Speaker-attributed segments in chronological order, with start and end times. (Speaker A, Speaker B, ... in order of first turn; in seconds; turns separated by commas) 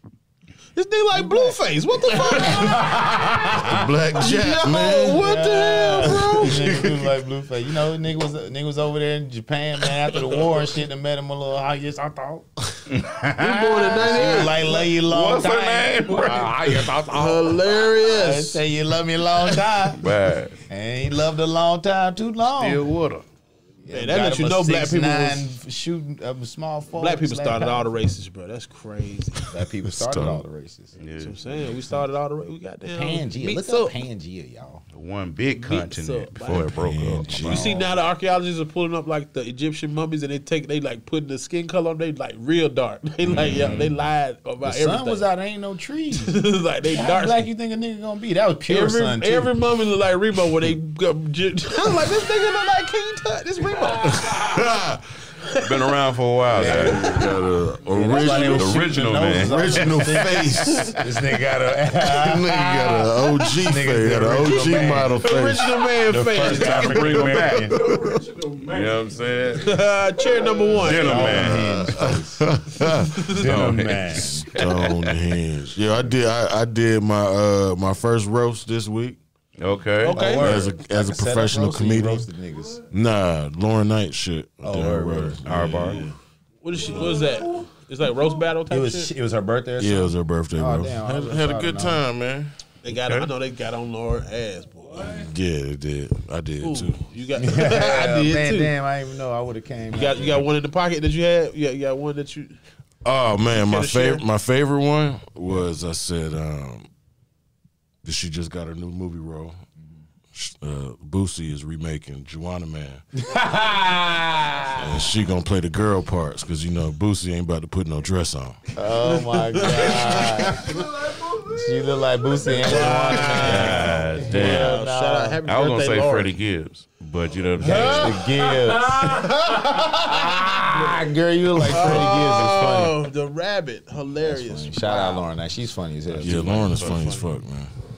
Speaker A: 0.8-3.5, Speaker B: 1.1-1.6, Speaker B: 2.1-4.0, Speaker C: 3.5-5.3, Speaker A: 4.2-6.8, Speaker B: 5.1-12.8, Speaker C: 6.0-7.0, Speaker D: 12.9-17.0, Speaker A: 13.4-14.7, Speaker B: 13.7-20.0, Speaker A: 17.1-18.6, Speaker D: 19.9-20.6, Speaker B: 20.7-22.8, Speaker D: 22.4-23.2, Speaker B: 23.8-27.9, Speaker A: 23.9-25.4, Speaker A: 27.0-29.5, Speaker B: 29.5-30.9, Speaker C: 29.9-30.4, Speaker D: 31.0-31.9, Speaker A: 31.2-34.0, Speaker B: 32.9-34.8, Speaker D: 34.9-37.6, Speaker A: 35.6-36.7, Speaker C: 36.7-37.8, Speaker B: 37.3-37.9, Speaker A: 37.4-45.2, Speaker D: 43.2-43.9, Speaker B: 43.4-43.8, Speaker B: 44.6-49.5, Speaker A: 46.1-47.4, Speaker A: 48.7-54.6, Speaker C: 53.9-55.0, Speaker D: 55.5-57.2, Speaker B: 56.5-57.3, Speaker C: 56.5-58.9, Speaker B: 57.9-63.0, Speaker D: 58.3-60.2, Speaker C: 59.4-61.0, Speaker A: 60.7-61.0, Speaker C: 62.1-65.8, Speaker A: 62.5-63.7, Speaker B: 63.6-65.3, Speaker A: 64.5-67.5, Speaker B: 66.0-67.9, Speaker D: 66.4-69.9, Speaker C: 67.7-68.2, Speaker A: 69.6-71.5, Speaker D: 70.7-71.9, Speaker B: 70.8-72.4, Speaker C: 71.2-73.5, Speaker A: 72.9-73.5, Speaker D: 73.3-75.2, Speaker B: 73.3-74.5, Speaker C: 74.1-79.2, Speaker D: 79.6-80.4, Speaker A: 80.0-80.7, Speaker B: 80.0-82.8, Speaker C: 80.3-82.3, Speaker C: 82.9-86.2, Speaker B: 84.6-86.0, Speaker D: 85.4-86.0, Speaker A: 86.6-89.1, Speaker C: 86.8-87.2, Speaker B: 88.7-92.0, Speaker C: 89.8-92.5, Speaker A: 92.8-95.1, Speaker D: 92.9-93.3, Speaker C: 95.0-97.1, Speaker A: 96.6-98.7, Speaker B: 97.3-100.4, Speaker A: 99.9-102.5, Speaker C: 103.0-106.9, Speaker A: 103.5-104.2, Speaker C: 108.0-109.6, Speaker C: 110.3-113.0, Speaker B: 113.1-115.1, Speaker C: 114.8-118.7, Speaker B: 118.7-125.4, Speaker A: 119.2-120.7, Speaker C: 119.7-120.5, Speaker A: 122.5-126.3, Speaker D: 123.2-124.8, Speaker D: 125.4-128.3, Speaker A: 127.6-130.7, Speaker B: 127.6-132.9, Speaker A: 131.6-135.2, Speaker B: 134.2-136.9, Speaker D: 136.2-137.0, Speaker C: 136.2-137.7, Speaker A: 136.7-137.3